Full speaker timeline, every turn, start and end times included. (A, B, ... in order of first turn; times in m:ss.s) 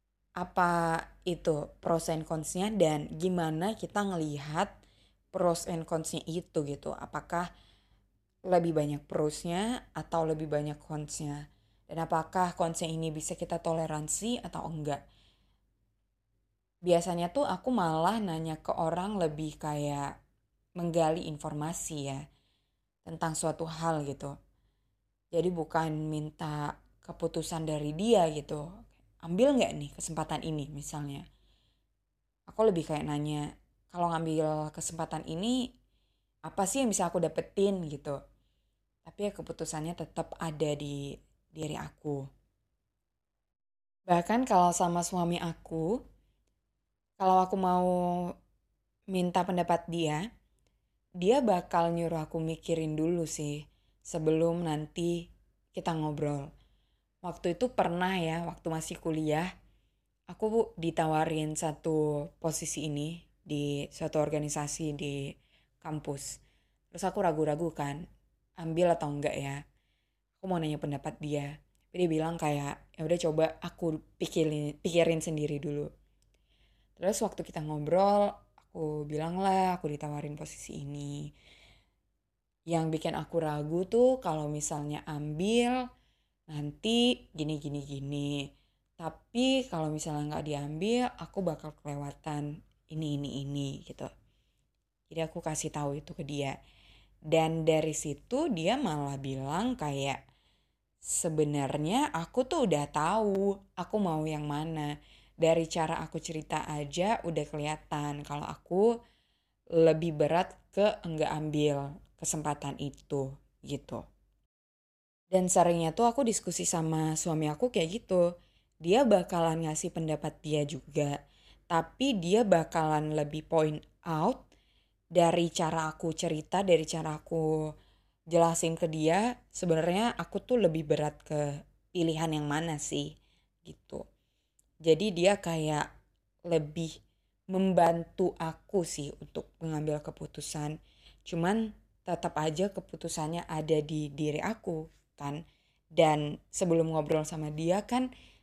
0:00.4-0:04.8 A
0:05.3-0:07.5 A
0:08.5-0:15.0 A
0:16.8-0:20.1 A
0:20.8-0:22.2 A
0:23.0-0:24.3 A
0:25.3-0:31.2 A
0:32.5-0:35.6 A
0:36.5-0:38.2 A
0:39.1-0:41.0 A
0:41.5-0:42.2 A
0:44.1-0:46.0 A
0:47.2-0:48.3 A
0:49.1-0:50.2 A
0:51.2-0:56.5 A
0:57.2-0:59.5 A
1:00.3-1:06.4 A
1:06.9-1:08.0 A
1:08.6-1:09.6 A
1:10.4-1:15.9 A
1:17.0-1:21.3 A
1:22.7-1:25.8 A
1:26.5-1:28.5 A
1:29.0-1:34.1 A
1:35.1-1:36.6 A
1:37.3-1:40.2 A
1:41.0-1:48.9 A
1:49.8-1:54.0 A
1:55.3-1:58.2 A
1:58.8-2:01.2 A
2:01.7-2:04.5 A
2:05.2-2:07.5 A
2:08.3-2:13.1 A
2:13.6-2:14.0 A
2:14.8-2:15.9 A
2:16.5-2:16.9 A
2:17.5-2:20.7 A
2:21.3-2:25.4 A
2:26.0-2:28.1 A